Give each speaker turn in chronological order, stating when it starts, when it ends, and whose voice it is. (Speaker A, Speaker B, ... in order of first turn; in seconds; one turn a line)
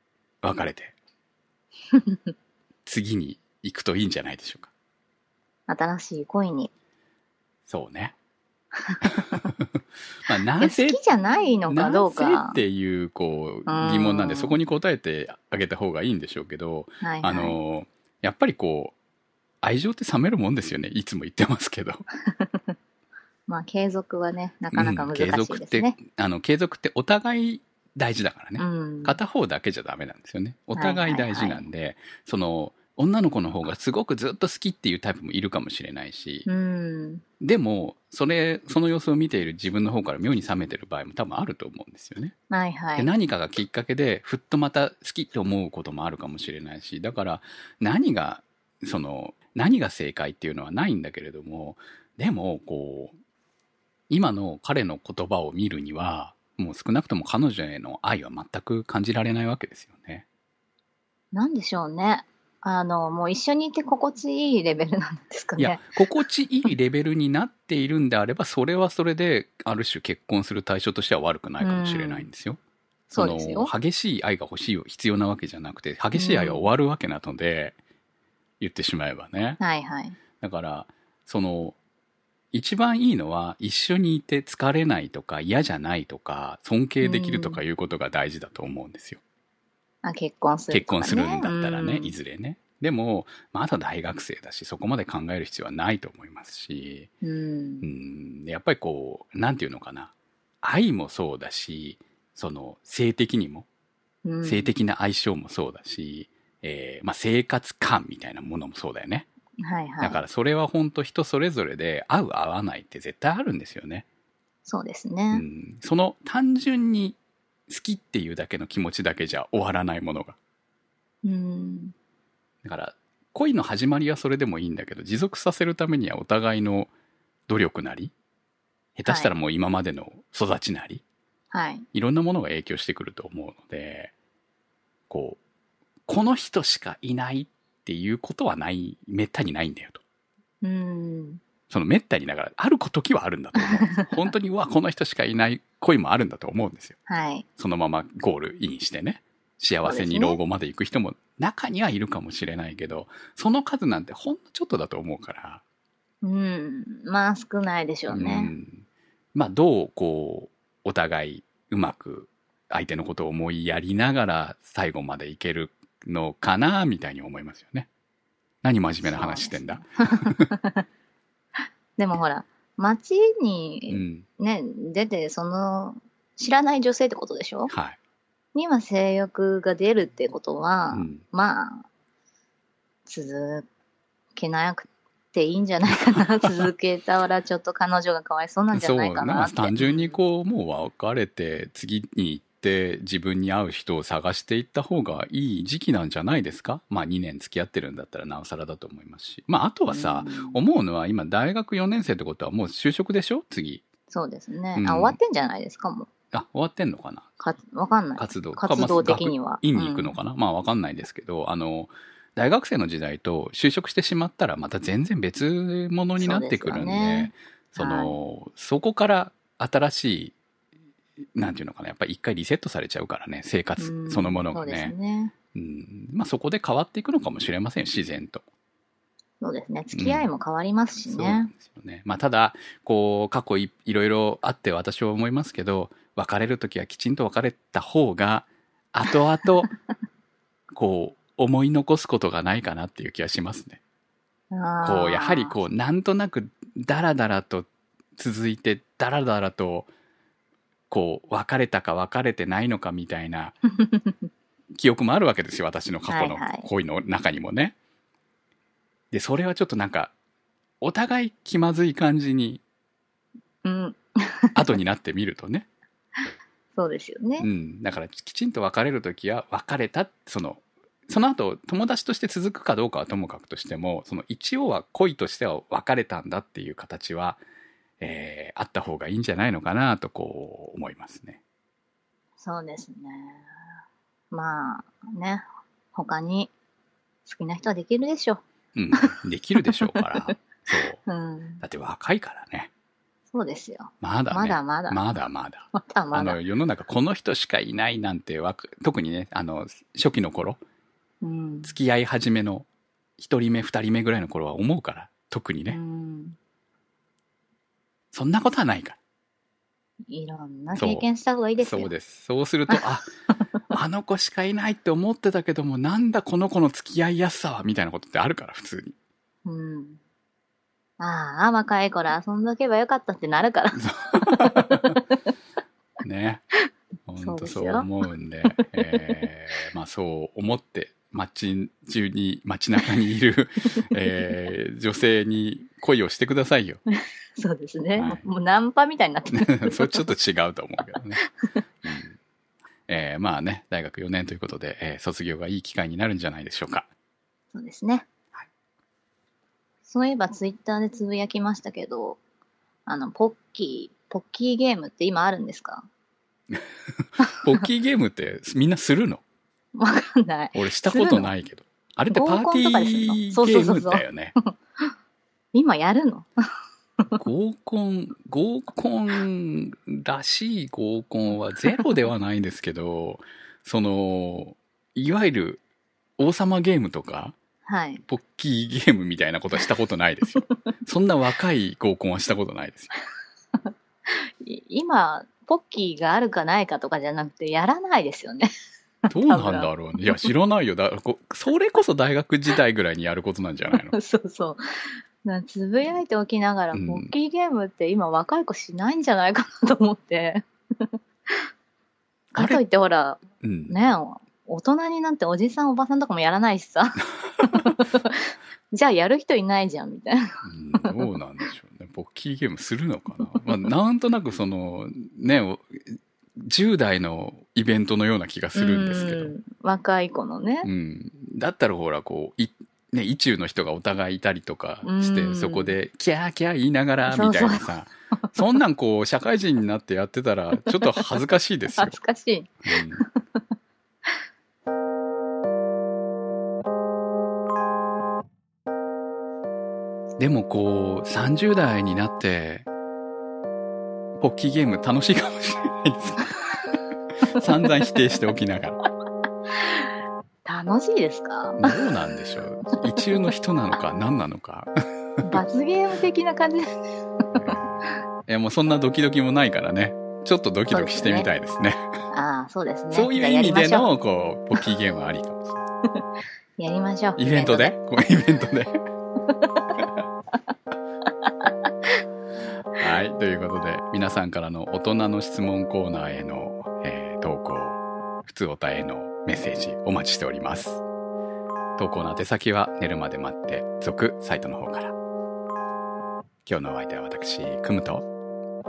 Speaker A: 0.4-0.9
Speaker A: 2.9-4.7
Speaker B: 5.7-6.7
Speaker A: 7.7-8.1
Speaker B: 8.8-9.4
Speaker A: 9.0-9.7
Speaker A: 10.2-11.0
Speaker B: 10.6-12.6
Speaker A: 11.7-18.9
Speaker B: 13.7-14.6
Speaker B: 17.0-17.6
Speaker A: 19.6-22.0
Speaker B: 22.3-22.7
Speaker B: 23.5-26.0
Speaker A: 24.7-36.5
Speaker B: 28.6-29.2
Speaker B: 30.8-31.6
Speaker B: 36.5-37.2
Speaker A: 37.4-42.3
Speaker B: 42.5-43.1
Speaker A: 43.0-53.1
Speaker A: 54.1-60.2
Speaker B: 61.3-65.9
Speaker A: 65.6-77.8
Speaker B: 71.6-72.3
Speaker B: 73.1-73.7
Speaker B: 76.1-76.7
Speaker A: 78.6-79.6
Speaker B: 79.6-80.2
Speaker A: 80.4-81.8
Speaker A: 82.5-89.2
Speaker B: 87.0-87.6
Speaker B: 90.0-92.1
Speaker A: 90.7-97.1
Speaker B: 97.2-97.8
Speaker A: 97.8-103.7
Speaker B: 104.2-104.7
Speaker A: 104.4-109.3
Speaker B: 109.6-110.2
Speaker A: 110.0-114.0
Speaker B: 114.7-115.4
Speaker A: 115.3-120.4
Speaker B: 121.2-121.9
Speaker A: 122.6-126.9
Speaker A: 127.5-128.1
Speaker A: 128.9-131.0
Speaker B: 129.1-129.3
Speaker B: 131.5-131.8
Speaker A: 131.9-134.1
Speaker A: 135.1-135.4
Speaker A: 136.1-140.0
Speaker B: 140.6-141.4
Speaker A: 141.7-146.9
Speaker B: 147.1-147.4
Speaker A: 147.6-155.6
Speaker B: 149.8-150.4
Speaker B: 156.2-158.5
Speaker A: 158.1-167.9
Speaker A: 168.6-170.4
Speaker B: 169.0-170.8
Speaker B: 172.0-177.7
Speaker A: 173.9-174.2
Speaker A: 177.7-178.0
Speaker B: 178.5-181.8
Speaker A: 180.9-181.2
Speaker B: 183.1-183.7
Speaker B: 184.3-190.2
Speaker A: 186.1-186.7
Speaker A: 188.7-203.8
Speaker B: 199.9-200.6
Speaker B: 204.1-206.1
Speaker A: 204.8-205.2
Speaker A: 206.3-207.3
Speaker B: 207.4-210.2
Speaker A: 208.2-220.3
Speaker B: 216.2-218.1
Speaker A: 221.3-224.9
Speaker B: 223.8-225.3
Speaker A: 225.5-228.4
Speaker B: 229.4-231.5
Speaker A: 229.9-230.3
Speaker A: 231.1-239.7
Speaker A: 240.7-243.8
Speaker B: 244.5-245.6
Speaker A: 244.8-249.9
Speaker A: 250.9-253.6
Speaker B: 253.7-254.2
Speaker A: 254.7-257.7
Speaker B: 256.1-256.7
Speaker A: 259.1-260.1
Speaker A: 260.8-262.6
Speaker B: 263.6-264.6
Speaker A: 264.6-265.7
Speaker B: 266.8-267.5
Speaker A: 267.4-277.4
Speaker A: 278.0-281.4
Speaker B: 282.4-283.4
Speaker B: 284.3-286.5
Speaker B: 287.2-288.4
Speaker A: 288.7-291.0
Speaker B: 289.6-290.0
Speaker B: 291.1-291.6
Speaker A: 291.6-292.7
Speaker B: 293.3-295.0
Speaker A: 294.0-300.6
Speaker B: 295.7-296.4
Speaker B: 301.2-301.7
Speaker A: 301.6-302.7
Speaker A: 303.2-305.8
Speaker B: 305.7-306.4
Speaker A: 308.1-309.0
Speaker B: 310.1-311.9
Speaker A: 310.7-311.0
Speaker A: 311.6-313.1
Speaker A: 313.7-318.9
Speaker B: 319.4-320.0
Speaker B: 321.0-325.0
Speaker A: 323.7-325.0
Speaker A: 326.0-326.4
Speaker A: 327.1-336.8
Speaker B: 327.2-327.9
Speaker B: 328.5-329.0
Speaker B: 337.4-340.0
Speaker A: 337.9-338.2
Speaker A: 339.3-341.2
Speaker A: 341.8-342.2
Speaker A: 342.9-346.9
Speaker B: 347.5-348.1
Speaker B: 349.9-352.2
Speaker B: 352.9-355.8
Speaker A: 356.5-359.2
Speaker B: 359.7-361.3
Speaker A: 360.5-364.3
Speaker B: 362.1-364.5
Speaker B: 365.5-366.3
Speaker A: 367.2-375.6
Speaker A: 376.2-377.4
Speaker B: 377.6-378.0
Speaker A: 378.0-382.9
Speaker B: 384.1-388.5
Speaker A: 389.1-393.9
Speaker B: 389.1-389.7
Speaker B: 393.8-394.6
Speaker B: 395.2-401.4
Speaker A: 396.7-397.1
Speaker B: 402.3-410.2
Speaker A: 402.4-402.6
Speaker A: 403.4-403.9
Speaker A: 410.4-419.3
Speaker B: 418.5-420.7
Speaker A: 420.6-432.0
Speaker B: 424.8-425.8
Speaker B: 427.1-427.7
Speaker B: 430.6-431.0
Speaker B: 431.8-433.0
Speaker A: 432.6-433.0
Speaker A: 440.2-442.7
Speaker A: 444.2-446.3
Speaker A: 447.3-448.8
Speaker B: 450.4-451.7
Speaker A: 451.6-454.7
Speaker B: 455.2-456.8
Speaker A: 457.4-461.8
Speaker B: 460.7-461.3
Speaker B: 462.1-463.9
Speaker A: 462.9-465.6
Speaker B: 466.6-467.7
Speaker A: 467.2-468.8
Speaker A: 472.8-480.8
Speaker A: 481.8-484.9
Speaker A: 486.4-488.0